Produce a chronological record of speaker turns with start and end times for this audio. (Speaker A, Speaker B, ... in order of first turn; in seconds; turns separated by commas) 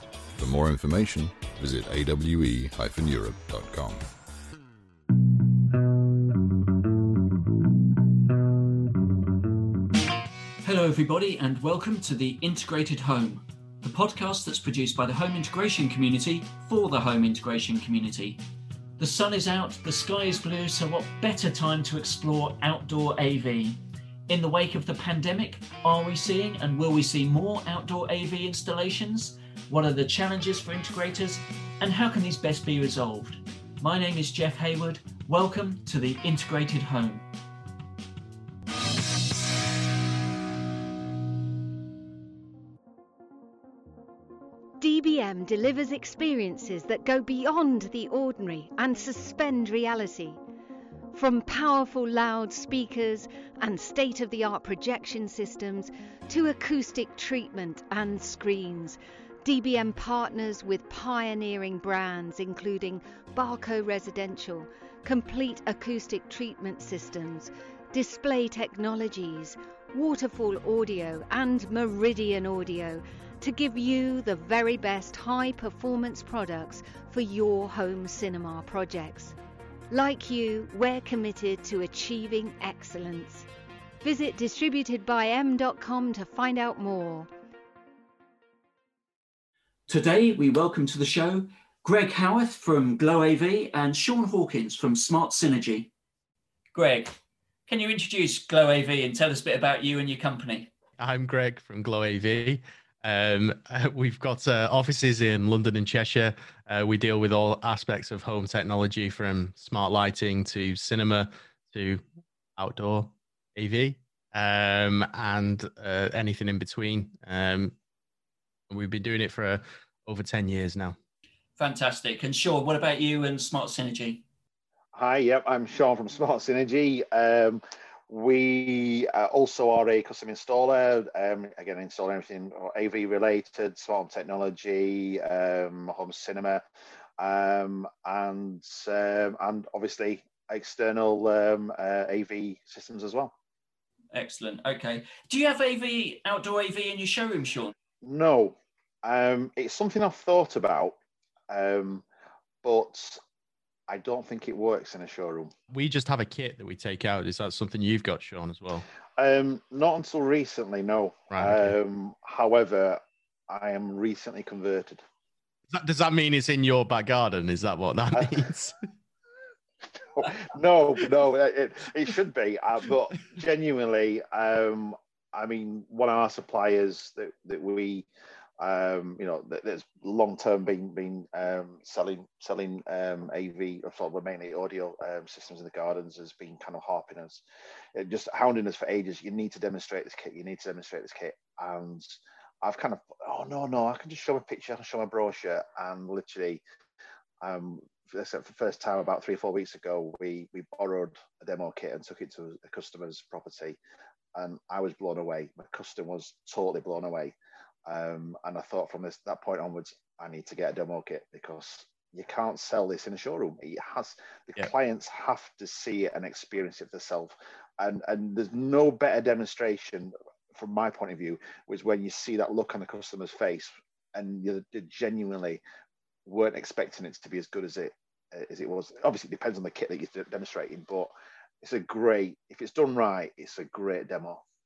Speaker A: 0.4-4.0, Speaker B: 10.6-18.4, Speaker B: 19.0-37.2, Speaker C: 44.8-50.4, Speaker C: 51.1-79.3, Speaker C: 79.9-83.5, Speaker C: 84.0-87.3, Speaker B: 89.9-95.9, Speaker B: 96.7-97.2, Speaker B: 97.7-100.7, Speaker D: 101.0-112.0, Speaker D: 112.6-117.7, Speaker D: 118.7-121.0, Speaker B: 121.6-124.2, Speaker E: 125.0-136.7, Speaker E: 137.2-143.3, Speaker B: 144.1-147.7, Speaker E: 148.0-151.0, Speaker E: 151.5-152.1, Speaker E: 152.6-153.2, Speaker E: 153.9-155.5, Speaker D: 155.7-158.9, Speaker E: 159.2-165.0, Speaker D: 161.3-161.7, Speaker D: 165.7-168.8, Speaker E: 170.1-178.1, Speaker E: 178.6-187.4, Speaker E: 187.9-196.6, Speaker E: 197.4-203.8, Speaker E: 204.3-207.3, Speaker E: 207.9-225.6, Speaker E: 226.2-234.4